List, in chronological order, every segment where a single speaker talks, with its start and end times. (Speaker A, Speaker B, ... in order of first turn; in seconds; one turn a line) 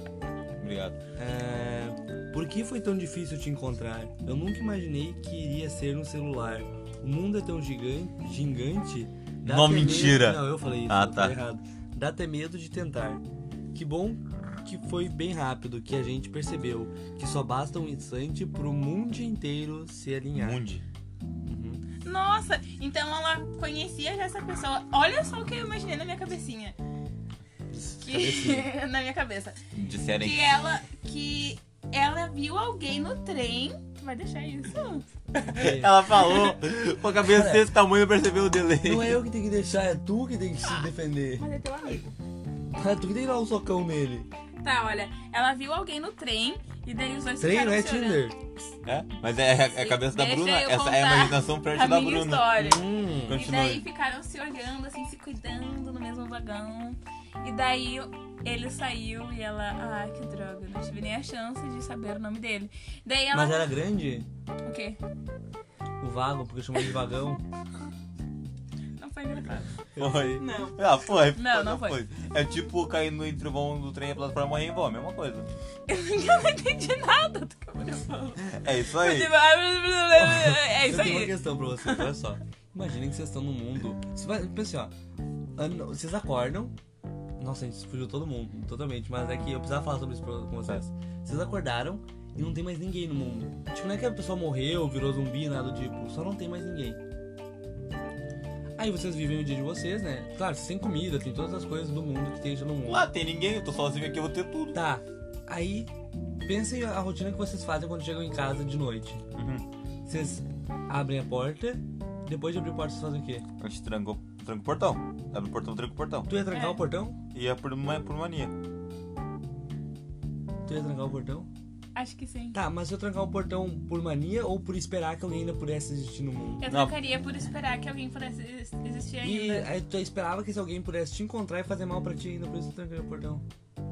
Speaker A: 0.6-1.0
Speaker B: 1.2-20.6
Speaker A: 9.4-11.4
Speaker A: 20.3-20.9
Speaker B: 21.4-21.8
Speaker C: 22.0-26.8
Speaker B: 27.7-28.7
Speaker C: 28.0-29.6
Speaker A: 29.7-30.7
Speaker C: 30.1-35.1
Speaker A: 35.3-39.2
Speaker B: 35.5-36.3
Speaker B: 37.2-37.7
Speaker B: 38.8-41.5
Speaker C: 40.6-42.1
Speaker B: 42.7-44.3
Speaker C: 44.6-48.3
Speaker B: 47.4-48.4
Speaker A: 48.8-52.6
Speaker C: 49.7-63.7
Speaker B: 52.6-53.4
Speaker A: 53.3-53.9
Speaker B: 63.3-64.3
Speaker C: 64.7-65.0
Speaker B: 66.0-67.4
Speaker C: 69.0-69.7
Speaker A: 69.6-75.5
Speaker B: 70.0-70.4
Speaker C: 70.4-72.0
Speaker C: 75.9-82.1
Speaker A: 78.5-79.3
Speaker B: 80.1-84.9
Speaker B: 85.6-86.7
Speaker B: 87.4-97.0
Speaker B: 98.8-103.1
Speaker A: 102.8-104.8
Speaker B: 104.7-105.9
Speaker B: 106.5-109.2
Speaker A: 109.3-109.7
Speaker B: 110.1-113.5
Speaker A: 113.6-116.3
Speaker B: 116.3-117.2
Speaker C: 116.5-116.8
Speaker A: 117.3-118.5
Speaker B: 120.7-121.5
Speaker C: 122.0-122.6
Speaker B: 122.5-126.6
Speaker C: 126.6-129.7
Speaker A: 126.7-127.0
Speaker B: 129.2-133.4